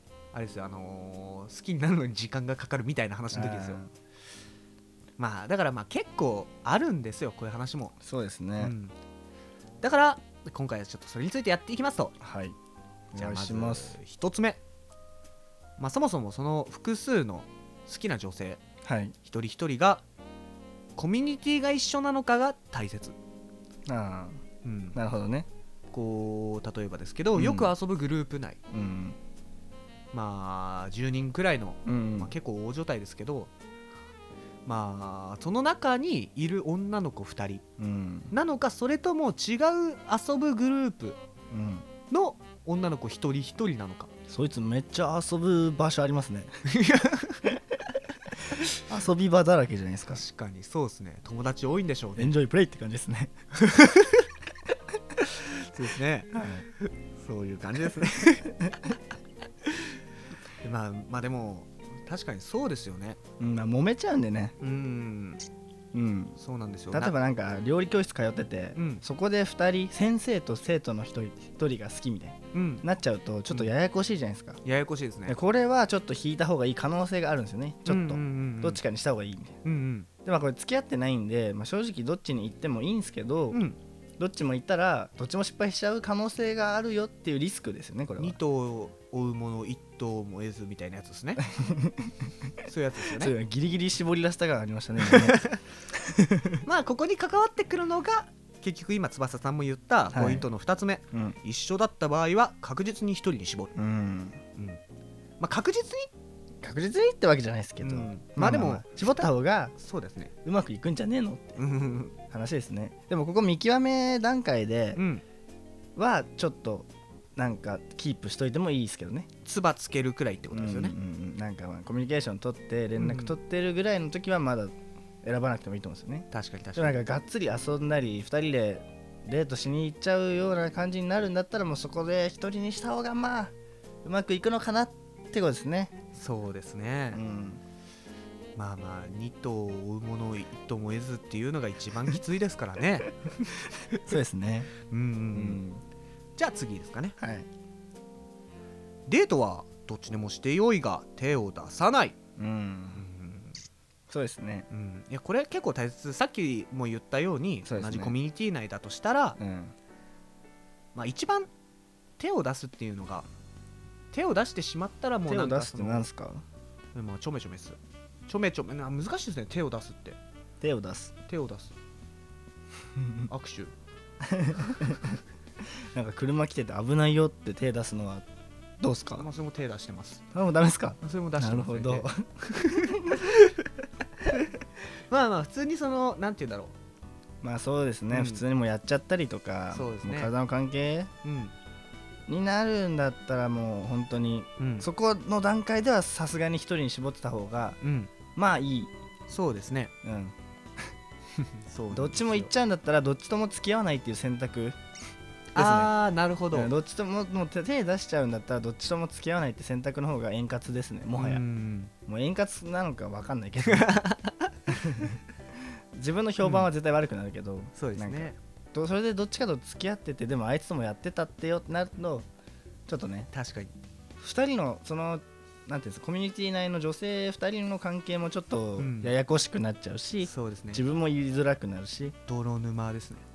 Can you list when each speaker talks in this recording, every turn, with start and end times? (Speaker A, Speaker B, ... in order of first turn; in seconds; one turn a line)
Speaker A: 0.3-3.8
Speaker B: 3.3-3.9
Speaker A: 5.2-8.0
Speaker B: 8.0-8.8
Speaker A: 8.6-8.9
Speaker A: 9.8-12.2
Speaker B: 12.2-12.6
Speaker B: 13.1-13.9
Speaker A: 13.2-14.6
Speaker A: 15.8-18.6
Speaker B: 18.8-19.1
Speaker A: 19.2-20.0
Speaker A: 21.0-23.2
Speaker B: 23.9-24.4
Speaker A: 24.6-25.0
Speaker B: 24.9-25.5
Speaker A: 25.9-28.6
Speaker B: 27.3-27.7
Speaker B: 28.7-29.2
Speaker A: 30.1-33.5
Speaker B: 31.9-32.3
Speaker A: 34.7-37.6
Speaker B: 37.8-38.3
Speaker A: 38.3-41.2
Speaker B: 41.5-41.9
Speaker A: 42.1-44.1
Speaker B: 44.3-46.5
Speaker A: 46.7-47.5
Speaker B: 48.7-50.2
Speaker A: 50.1-52.3
Speaker B: 52.2-53.4
Speaker A: 53.6-54.3
Speaker A: 55.2-58.6
Speaker B: 56.3-56.7
Speaker A: 60.6-63.2
Speaker B: 63.4-64.6
Speaker A: 64.6-65.4
Speaker B: 65.9-66.4
Speaker A: 66.4-67.1
Speaker B: 66.9-74.6
Speaker A: 68.8-69.0
Speaker A: 72.5-72.8
Speaker A: 74.6-75.4
Speaker B: 75.3-79.6
Speaker A: 77.9-78.8
Speaker A: 79.6-80.1
Speaker B: 80.3-83.6
Speaker A: 83.5-83.8
Speaker B: 84.2-88.4
Speaker A: 88.2-91.5
Speaker B: 91.5-92.3
Speaker A: 92.7-93.4
Speaker B: 93.1-96.6
Speaker A: 95.0-95.6
Speaker A: 96.7-103.7
Speaker B: 100.1-100.5
Speaker B: 101.1-101.4
Speaker B: 103.8-104.4
Speaker A: 105.4-106.1
Speaker B: 106.6-109.7
Speaker A: 107.8-110.3
Speaker B: 110.4-111.6
Speaker A: 111.6-112.2
Speaker B: 112.3-115.0
Speaker A: 115.0-115.2
Speaker B: 116.0-119.3
Speaker A: 119.5-121.0
Speaker B: 120.5-135.9
Speaker A: 123.0-123.4
Speaker A: 126.3-127.0
Speaker A: 136.2-137.2
Speaker B: 137.1-137.6
Speaker A: 138.6-144.2
Speaker B: 144.0-144.7
Speaker A: 144.9-145.6
Speaker B: 145.3-145.8
Speaker A: 146.4-147.2
Speaker B: 147.2-147.5
Speaker A: 149.1-152.2
Speaker B: 152.4-153.1
Speaker A: 153.0-153.6
Speaker B: 154.1-154.7
Speaker A: 154.7-159.4
Speaker B: 157.7-158.2
Speaker B: 159.4-159.7
Speaker A: 160.9-161.5
Speaker A: 162.2-163.3
Speaker A: 164.1-166.1
Speaker B: 165.3-166.4
Speaker A: 166.9-170.2
Speaker B: 170.6-171.1
Speaker A: 171.3-171.7
Speaker B: 173.0-173.3
Speaker A: 173.3-173.7
Speaker B: 174.2-175.2
Speaker B: 175.9-178.3
Speaker B: 178.8-179.3
Speaker A: 179.2-180.2
Speaker B: 180.3-183.3
Speaker A: 181.0-182.1
Speaker A: 182.6-183.7
Speaker A: 185.1-186.8
Speaker B: 187.4-191.1
Speaker A: 188.1-188.4
Speaker A: 189.7-190.3
Speaker A: 191.2-191.6
Speaker B: 192.3-197.8
Speaker A: 194.6-194.9
Speaker A: 197.8-198.1
Speaker B: 198.3-198.9
Speaker A: 199.3-199.9
Speaker B: 200.0-200.9
Speaker A: 201.4-202.5
Speaker B: 201.9-204.8
Speaker B: 205.5-205.9
Speaker A: 205.6-206.7
Speaker B: 206.5-211.4
Speaker A: 211.2-211.9
Speaker B: 212.1-213.9
Speaker A: 213.7-214.7
Speaker B: 214.7-215.2
Speaker B: 215.9-222.3
Speaker A: 216.4-216.7
Speaker A: 217.8-218.4
Speaker B: 222.9-223.3
Speaker A: 223.3-223.8
Speaker B: 224.2-232.2
Speaker A: 228.8-229.1
Speaker A: 230.2-230.8
Speaker A: 232.3-233.2